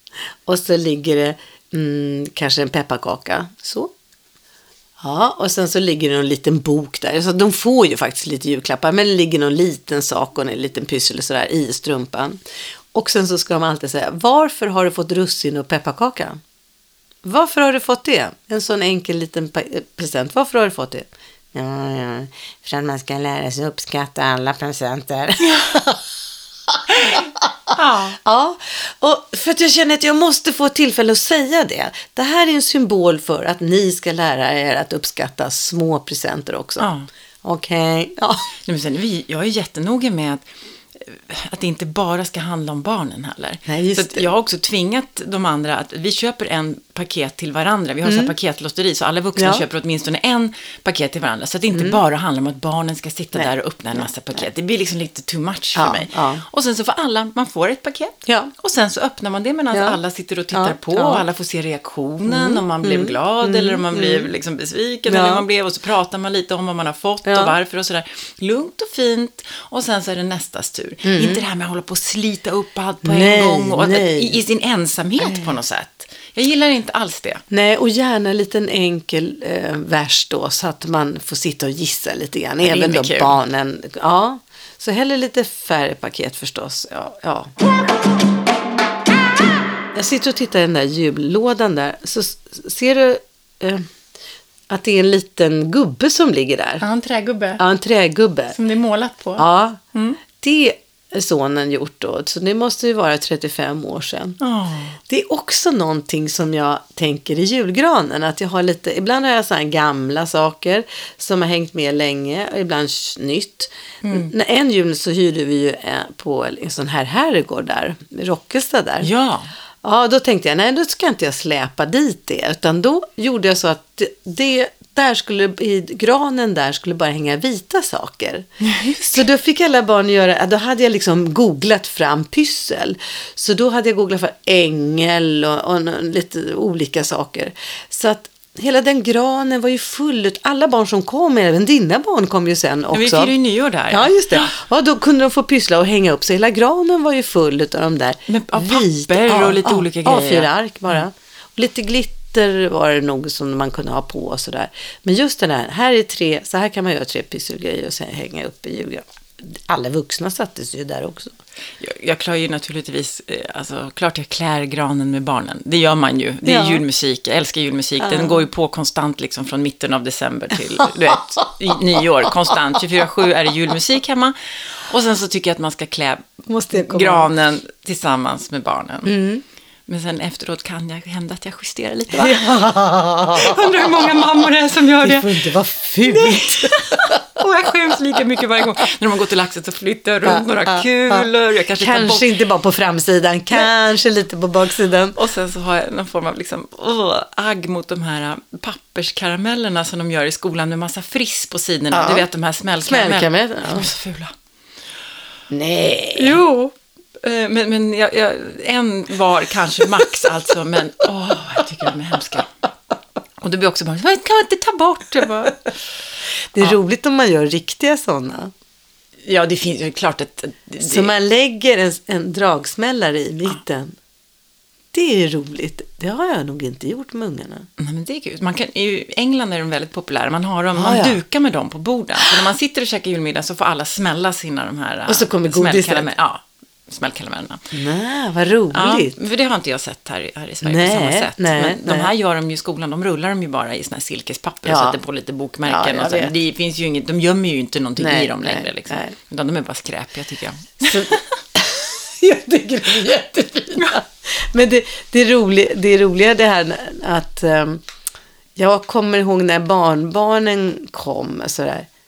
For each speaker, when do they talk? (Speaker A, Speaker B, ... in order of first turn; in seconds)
Speaker A: 0.4-3.9, 5.0-12.4, 12.9-16.4, 17.2-26.0, 26.7-36.9, 37.4-38.5, 43.7-44.3, 48.0-48.3, 49.4-49.6, 51.7-52.0, 53.3-54.0, 55.7-56.4, 58.2-58.5, 59.7-60.0, 60.5-61.2, 62.3-64.3, 65.1-65.5, 67.2-67.5, 71.0-71.4, 73.0-74.4, 75.2-75.5, 77.5-87.5, 89.9-93.9, 94.7-96.8, 97.6-98.6, 99.4-99.8, 100.3-104.4, 105.1-119.1, 119.8-128.5, 129.0-143.3, 143.9-161.3, 166.4-166.8, 168.0-168.4, 176.5-177.3, 179.1-179.4, 182.1-184.4, 185.0-188.0, 190.2-191.2, 191.8-195.2, 201.9-202.2, 202.8-203.9, 205.5-206.4, 216.5-218.5, 220.8-224.0, 224.9-227.7, 230.7-231.2, 235.1-236.1, 237.7-239.2, 240.6-242.1, 244.6-245.0, 245.7-246.3, 248.0-249.1, 250.8-257.8, 258.6-261.9
Speaker B: 25.4-25.7, 26.9-28.2, 36.8-37.1, 38.6-40.5, 41.0-77.4, 82.6-83.3, 96.8-97.6, 98.5-100.2, 104.4-105.0, 114.0-114.3, 119.0-119.5, 128.6-129.2, 142.9-144.5, 148.3-151.0, 161.8-179.2, 179.9-182.6, 183.3-185.4, 186.0-192.3, 195.1-204.3, 206.2-212.5, 213.4-215.6, 219.2-221.1, 227.8-237.6, 238.7-251.3